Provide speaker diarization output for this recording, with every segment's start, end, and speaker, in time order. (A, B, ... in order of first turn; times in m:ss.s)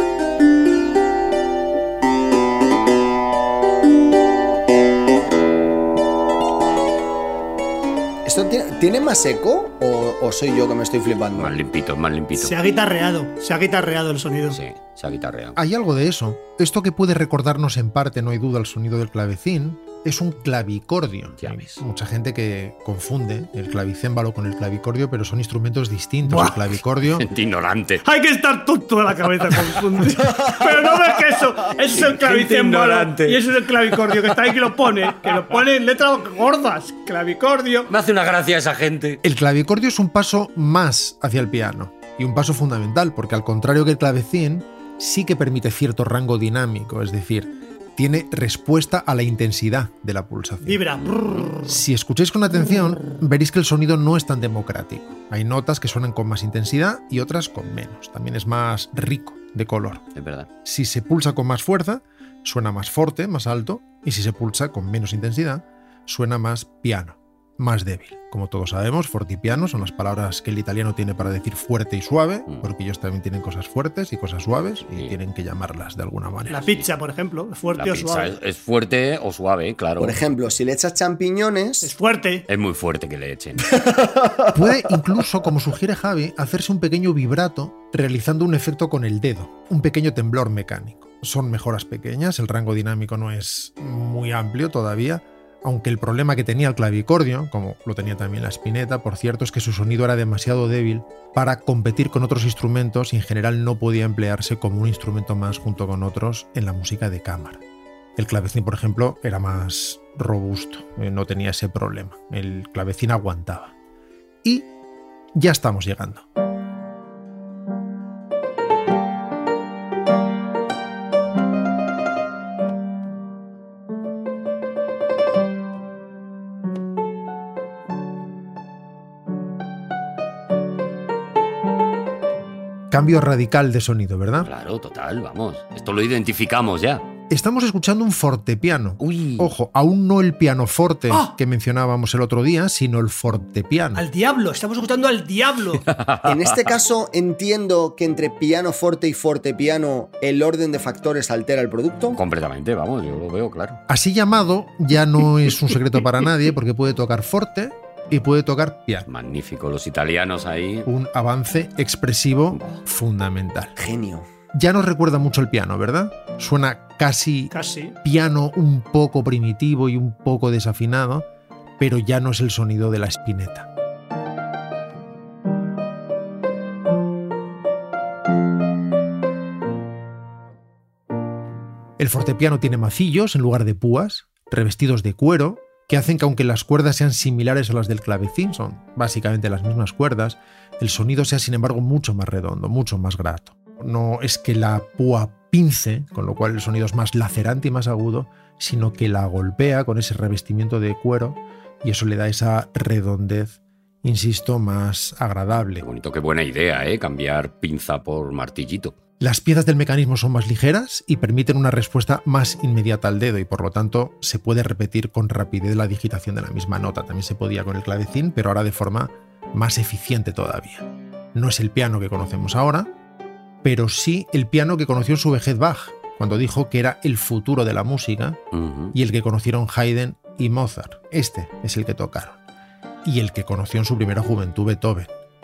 0:08.2-0:11.5 A
0:11.4-0:12.5 B
0:12.4-0:14.6 C
0:14.5-0:15.6 B
0:15.6-0:27.2 D
0:21.4-0:21.8 B
0:26.3-0:26.6 C
0:27.1-0:28.0 B
0:28.0-0:37.9 C
0:31.9-0:33.4 B
0:37.9-0:39.2 B
0:39.2-0:50.8 D
0:50.6-0:51.6 C
0:51.1-0:51.5 B
0:51.6-1:00.0 D
1:00.1-1:00.5 B
1:00.6-1:16.7 D
1:16.5-1:18.3 C
1:17.7-1:20.2 B
1:20.0-1:21.9 A
1:21.8-1:22.5 C
1:22.5-1:23.6 B
1:23.7-1:24.5 A
1:24.5-1:47.6 D
1:48.2-1:53.7 D
1:54.4-1:54.7 D
1:55.3-1:56.2 D
2:12.9-2:14.5 D
2:14.4-2:17.0 B
2:17.3-2:24.0 D
2:19.0-2:19.5 B
2:24.0-2:25.8 C
2:25.8-2:26.7 B
2:26.2-2:32.2 A
2:32.1-2:33.8 B
2:33.9-2:39.1 D
2:39.1-2:40.9 B
2:40.8-2:43.7 D
2:42.5-2:42.8 B
2:43.8-2:44.3 A
2:44.5-2:47.5 D
2:47.5-2:48.0 C
2:48.0-2:51.2 D
2:51.8-2:53.7 D
3:02.0-3:25.8 D
3:25.8-3:28.9 B
3:29.2-3:42.9 D
3:43.6-3:48.4 D
3:48.5-3:48.9 B
3:48.9-3:52.4 D
3:53.0-3:55.1 D